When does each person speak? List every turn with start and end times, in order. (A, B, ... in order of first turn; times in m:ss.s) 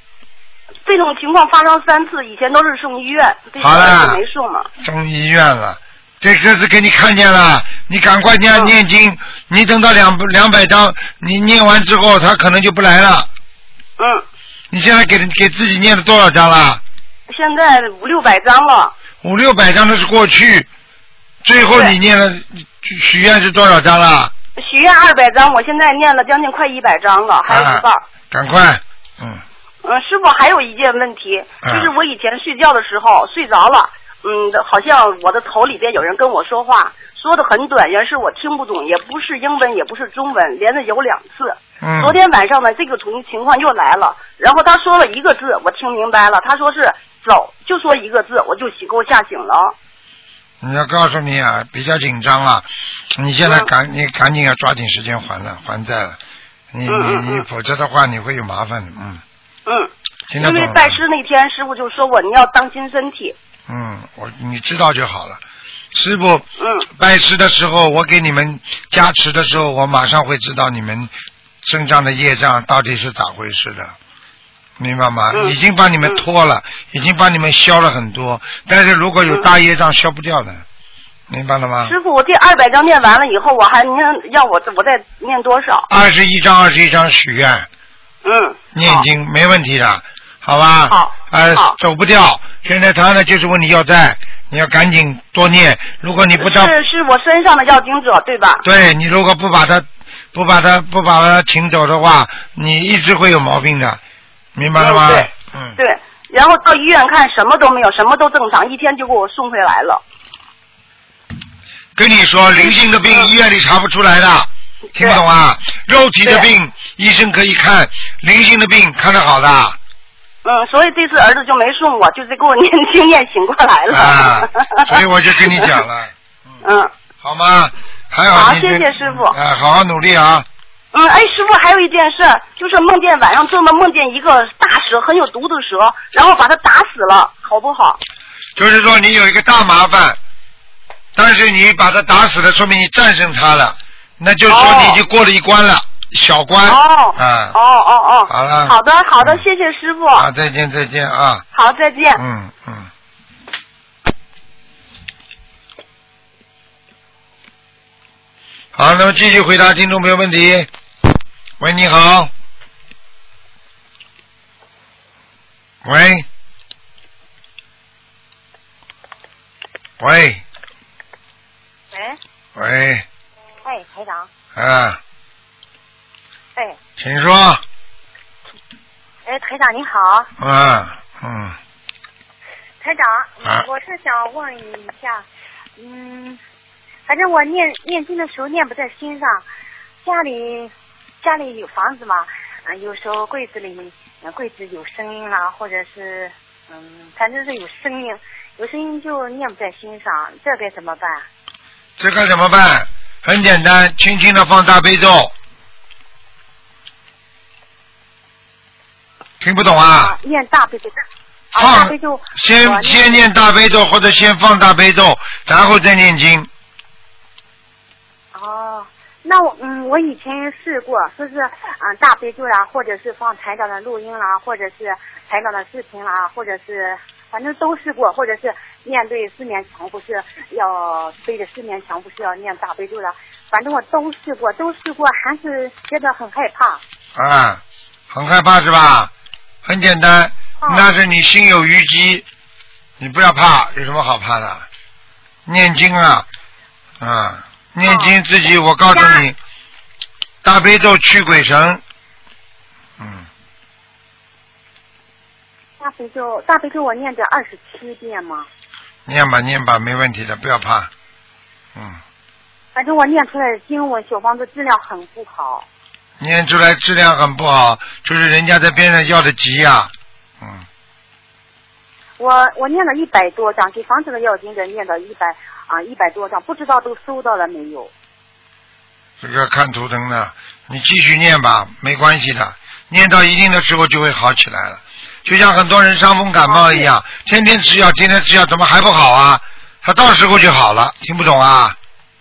0:00.9-0:04.7 A
0:03.6-0:04.2 B
0:04.8-0:13.3 B
0:14.0-0:14.2 A
0:14.7-0:16.8 B
0:17.3-0:18.9 A
0:19.2-0:20.7 B
0:21.4-0:24.3 B
0:21.7-0:22.0 A
0:24.6-0:28.0 A
0:27.5-0:29.4 B
0:29.8-0:49.8 A
0:31.6-0:31.9 B
0:41.8-0:42.2 B
0:50.6-0:56.2 B
0:53.4-0:53.7 A
0:56.7-0:59.2 B
0:56.9-0:57.5 A
0:59.7-1:03.4 A
1:00.3-1:01.0 B
1:03.7-1:05.4 B
1:05.9-1:06.4 B
1:06.6-1:06.9 A
1:07.0-1:11.1 B
1:11.6-1:13.9 B
1:14.8-1:20.6 B
1:15.3-1:16.2 A
1:21.3-1:22.0 B
1:21.8-1:25.9 A
1:25.9-1:27.7 B
1:28.2-1:29.1 A
1:28.8-1:36.7 B
1:30.9-1:31.8 A
1:36.4-1:38.6 A
1:38.6-1:44.0 B
1:44.6-1:45.8 B
1:44.8-1:50.0 A
1:52.0-1:59.8 B
1:52.6-1:53.3 A
1:55.0-1:55.2 A
1:56.2-1:56.5 A
2:00.4-2:05.8 A
2:03.9-2:06.1 B
2:06.6-2:06.9 A
2:07.2-2:10.5 B
2:08.3-2:09.4 A
2:10.9-2:18.0 A
2:18.6-2:20.2 B
2:21.2-2:27.6 B
2:24.5-2:25.0 A
2:26.6-2:30.3 A
2:28.3-2:29.4 B
2:30.1-2:31.4 B
2:31.5-2:32.2 A
2:32.2-2:32.9 B
2:38.8-2:40.7 B
2:41.6-2:42.3 B
2:45.8-2:46.3 B
2:50.0-2:50.4 B
2:51.9-2:52.2 C
2:52.6-2:53.0 B
2:53.6-2:54.3 C
2:54.6-2:55.0 B
2:57.0-2:57.6 B
2:59.3-3:00.3 C
3:00.4-3:01.6 B
3:02.8-3:05.2 C
3:05.8-3:06.4 C
3:07.1-3:09.5 C
3:10.0-3:21.3 C
3:22.0-3:25.3 B
3:29.4-3:30.1 B
3:29.9-3:31.0 C
3:31.5-3:33.3 C
3:31.6-3:36.5 B
3:38.3-3:56.8 C
3:57.2-3:59.1 B
3:59.6-4:02.2 B
4:00.6-4:00.9 C
4:03.0-4:04.7 B
4:05.5-4:06.3 B
4:07.0-4:09.4 B
4:07.8-4:08.2 C
4:08.9-4:09.3 C
4:10.4-4:11.8 B
4:13.0-4:13.3 B
4:15.8-4:18.5 C
4:19.1-4:20.9 B
4:22.8-4:25.7 C
4:26.2-4:29.9 B
4:32.2-4:37.9 C
4:39.2-4:51.8 B
4:46.4-4:46.9 C